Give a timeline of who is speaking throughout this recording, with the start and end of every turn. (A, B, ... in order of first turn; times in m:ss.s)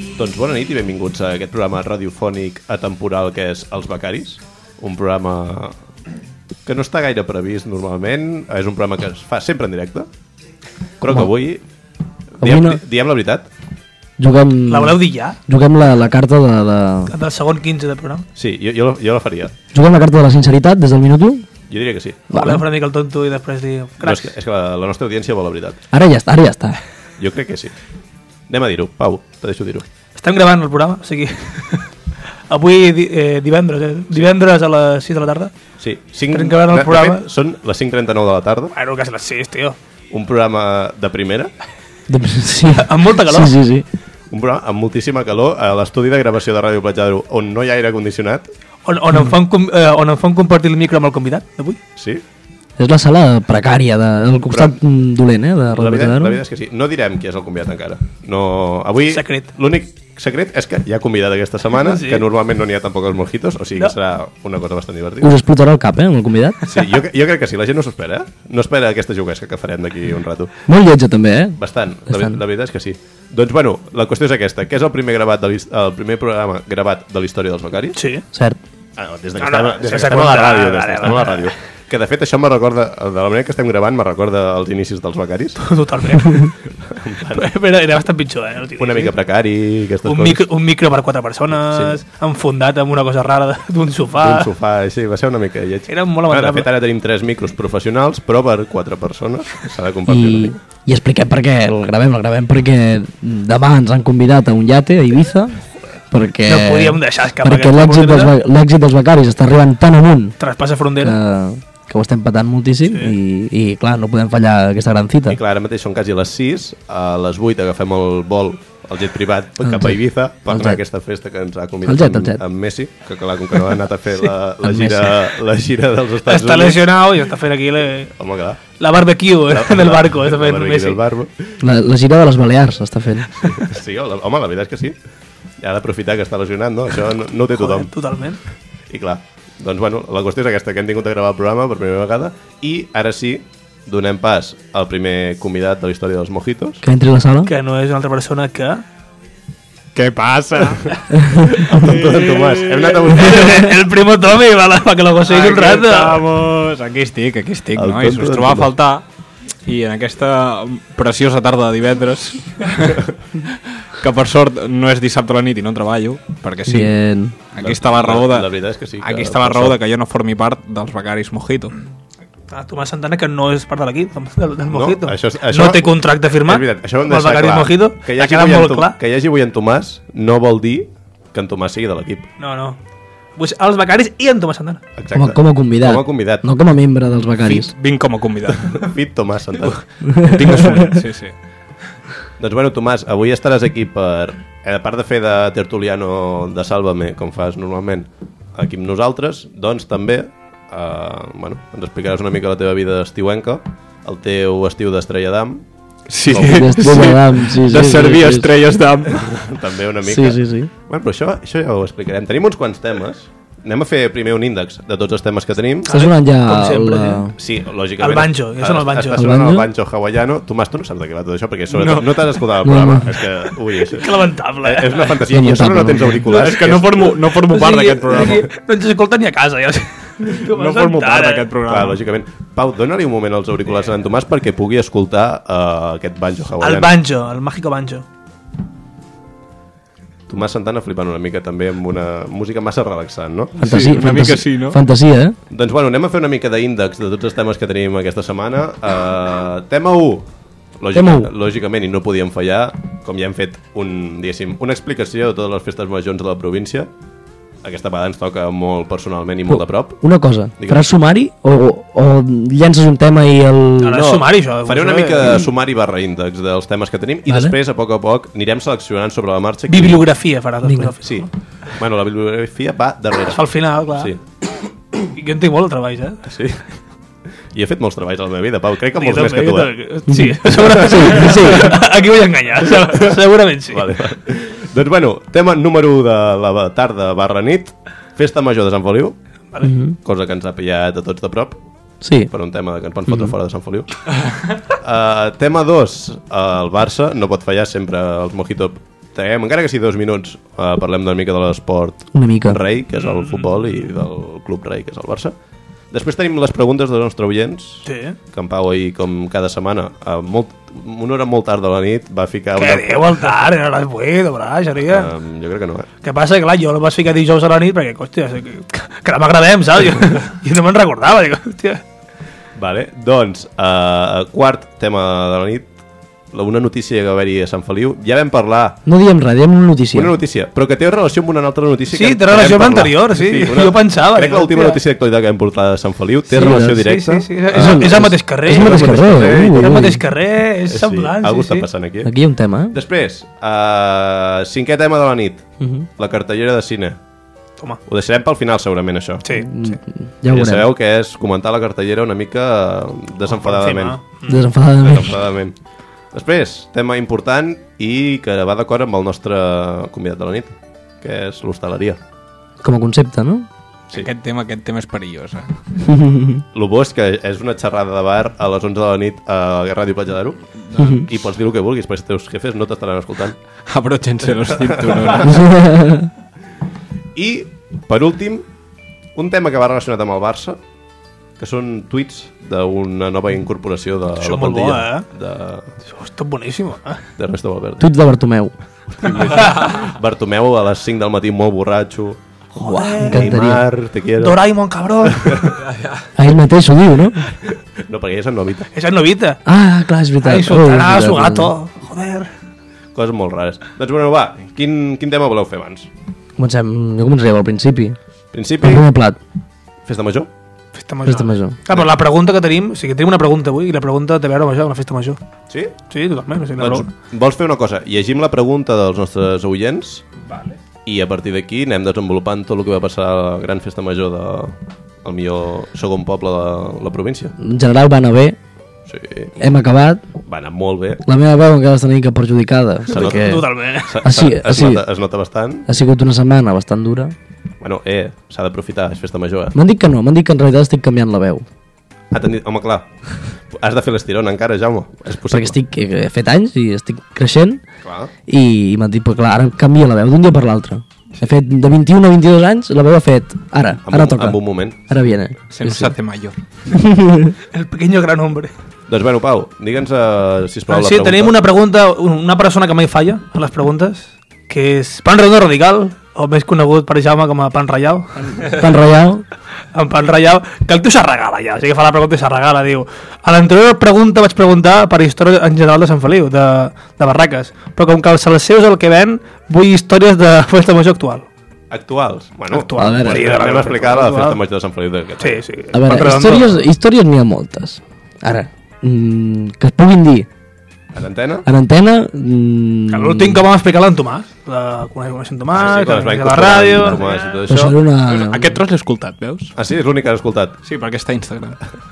0:00.2-0:05.8 A
0:06.7-0:10.1 A
0:11.0-0:11.6 A
0:12.4-0:13.5 A
0:12.4-0:12.8 B
0:14.2-0:17.1 B
0:14.7-0:15.4 C
0:17.1-0:18.2 C
0:18.4-0:19.6 A
0:19.7-0:21.5 B
0:21.7-0:22.3 A
0:22.3-0:22.6 B
0:22.3-0:24.3 C
0:24.0-0:25.8 A
0:25.9-0:26.8 B
0:27.2-0:27.7 A
0:28.5-0:29.9 A
0:30.2-0:31.9 C
0:32.5-0:35.5 C
0:35.8-0:38.7 A
0:36.3-0:37.2 C
0:38.7-0:39.8 C
0:40.1-0:41.5 A
0:42.1-0:43.9 B
0:42.7-0:43.5 C
0:44.3-0:48.5 A
0:48.9-0:51.8 C
0:52.0-0:52.2 A
0:52.8-0:56.4 B
0:54.5-0:54.8 A
0:55.7-1:05.3 A
0:59.1-0:59.5 C
1:01.8-1:02.2 C
1:05.2-1:06.6 B
1:06.7-1:10.5 A
1:10.7-1:12.4 B
1:11.6-1:18.0 A
1:18.0-1:18.2 C
1:18.3-1:18.6 B
1:19.0-1:25.6 A
1:19.4-1:21.5 C
1:25.6-1:26.5 C
1:26.9-1:27.4 A
1:27.4-1:29.1 C
1:28.8-1:30.5 A
1:30.0-1:34.5 C
1:31.5-1:32.0 A
1:34.2-1:40.6 A
1:35.9-1:36.7 C
1:40.1-1:45.6 B
1:46.1-1:50.4 B
1:46.5-1:48.3 C
1:50.4-1:51.2 C
1:51.0-1:55.4 B
1:52.8-1:53.1 C
1:55.3-2:06.9 A
1:59.6-2:00.8 B
2:01.8-2:02.4 B
2:04.6-2:05.2 B
2:06.2-2:08.1 C
2:08.2-2:08.6 A
2:08.8-2:11.0 C
2:09.5-2:11.5 A
2:11.6-2:13.6 B
2:13.3-2:15.0 A
2:15.6-2:17.9 A
2:17.5-2:18.4 C
2:18.9-2:26.8 A
2:26.8-2:27.5 B
2:27.5-2:28.8 C
2:30.0-2:31.0 D
2:31.2-2:31.7 B
2:31.7-2:33.3 D
2:31.7-2:33.7 A
2:33.1-2:36.2 C
2:35.3-2:39.0 D
2:37.8-2:38.7 A
2:39.6-2:47.0 D
2:46.7-2:47.4 B
2:47.5-2:51.8 D
2:47.6-2:49.8 A
2:52.5-2:59.0 C
2:54.7-3:02.3 A
3:02.4-3:02.8 C
3:03.4-3:04.8 C
3:05.0-3:06.5 A
3:05.1-3:07.7 B
3:07.2-3:08.9 D
3:08.5-3:09.8 A
3:09.7-3:11.4 D
3:10.1-3:10.9 B
3:12.4-3:25.6 A
3:26.1-3:29.3 D
3:26.3-3:26.7 A
3:26.3-3:28.6 B
3:29.2-3:35.9 A
3:30.0-3:30.7 B
3:35.9-3:37.3 C
3:35.9-3:37.4 B
3:37.4-3:47.2 A
3:38.0-3:39.3 C
3:39.2-3:39.7 B
3:41.8-3:42.1 C
3:42.6-3:43.2 B
3:43.9-3:45.2 C
3:45.3-3:46.3 B
3:46.2-3:48.5 D
3:47.5-3:51.5 C
3:50.4-3:52.0 D
3:51.7-3:57.0 A
3:56.6-3:58.0 C
4:00.3-4:03.6 A
4:03.6-4:05.4 B
4:03.6-4:04.8 D
4:05.5-4:16.9 A
4:10.9-4:11.3 B
4:17.6-4:20.0 A
4:19.5-4:24.1 B
4:20.6-4:20.9 A
4:23.8-4:25.4 C
4:23.9-4:30.1 A
4:27.3-4:27.6 B
4:29.7-4:31.3 C
4:30.6-4:30.9 B
4:31.0-4:33.4 A
4:33.3-4:34.1 C
4:34.0-4:34.2 A
4:35.1-4:36.2 C
4:36.2-4:36.6 A
4:37.5-4:39.8 A
4:39.0-4:43.9 C
4:40.1-4:41.8 B
4:40.6-4:41.5 A
4:43.7-4:49.2 A
4:49.6-4:50.0 B
4:50.0-4:51.6 A
4:52.0-4:52.3 B
4:52.3-4:54.1 A
4:54.8-5:05.4 A
5:02.1-5:02.6 B
5:03.0-5:03.4 C
5:05.9-5:13.0 A
5:07.8-5:08.2 C
5:12.6-5:15.1 C
5:14.9-5:15.9 A
5:16.0-5:21.8 C
5:22.6-5:25.7 A
5:26.3-5:28.8 A
5:28.8-5:30.2 B
5:29.9-5:39.9 A
5:31.9-5:34.8 C
5:36.3-5:37.0 B
5:36.5-5:41.7 C
5:37.5-5:40.0 B
5:40.7-5:42.1 A
5:42.0-5:42.8 B
5:42.7-5:47.0 A
5:45.6-5:45.9 B
5:47.9-5:49.2 A
5:49.2-5:49.8 C
5:49.4-5:50.7 B
5:50.3-5:54.0 A
5:53.3-5:54.5 C
5:54.3-5:55.2 B
5:54.8-5:55.6 A
5:56.1-6:02.0 A
6:02.6-6:03.5 B
6:03.9-6:05.5 D
6:05.8-6:06.4 B
6:06.5-6:13.4 A
6:10.8-6:11.1 B
6:13.7-6:15.4 D
6:14.7-6:15.2 A
6:15.2-6:16.1 B
6:17.2-6:18.5 A
6:19.2-6:20.6 A
6:21.4-6:25.7 A
6:24.2-6:25.1 C
6:25.8-6:27.0 C
6:27.2-6:27.9 A
6:27.8-6:28.5 B
6:29.0-6:32.2 A
6:29.3-6:29.6 C
6:32.5-6:33.4 C
6:32.6-6:33.6 B
6:33.0-6:34.4 A
6:34.2-6:35.6 C
6:35.2-6:35.5 A
6:35.6-6:36.0 D
6:36.2-6:37.3 B
6:37.5-6:38.7 A
6:38.7-6:39.4 C
6:39.5-6:41.5 B
6:40.2-6:42.3 C
6:43.0-6:45.9 A
6:46.4-6:48.0 B
6:48.3-6:48.9 A
6:48.6-6:49.2 B
6:49.8-6:50.3 A
6:50.7-6:55.2 C
6:51.0-6:51.6 B
6:55.9-6:56.9 C
6:56.6-7:00.1 A
7:00.3-7:00.5 C
7:00.8-7:07.4 A
7:07.4-7:08.4 B
7:08.9-7:09.5 A
7:09.4-7:10.0 B
7:10.2-7:11.0 A
7:11.1-7:13.4 B
7:12.9-7:14.0 C
7:12.9-7:15.6 A
7:14.0-7:14.8 B
7:15.7-7:17.1 B
7:17.6-7:19.6 A
7:19.5-7:21.5 B
7:22.1-7:25.6 A
7:25.3-7:27.6 B
7:27.8-7:28.1 A
7:28.3-7:36.0 B
7:33.9-7:34.8 A
7:35.5-7:36.4 D
7:36.7-7:37.4 B
7:37.5-7:38.5 C
7:38.9-7:41.4 A
7:40.7-7:48.5 C
7:48.4-7:49.2 B
7:49.7-8:01.3 C
8:01.7-8:05.4 A
8:02.5-8:04.4 C
8:02.8-8:03.4 B
8:05.2-8:06.5 C
8:05.7-8:10.3 B
8:10.9-8:11.5 A
8:11.5-8:13.4 B
8:12.9-8:17.7 C
8:15.5-8:17.8 A
8:17.5-8:18.6 B
8:18.0-8:19.6 D
8:19.6-8:20.6 A
8:20.6-8:21.6 D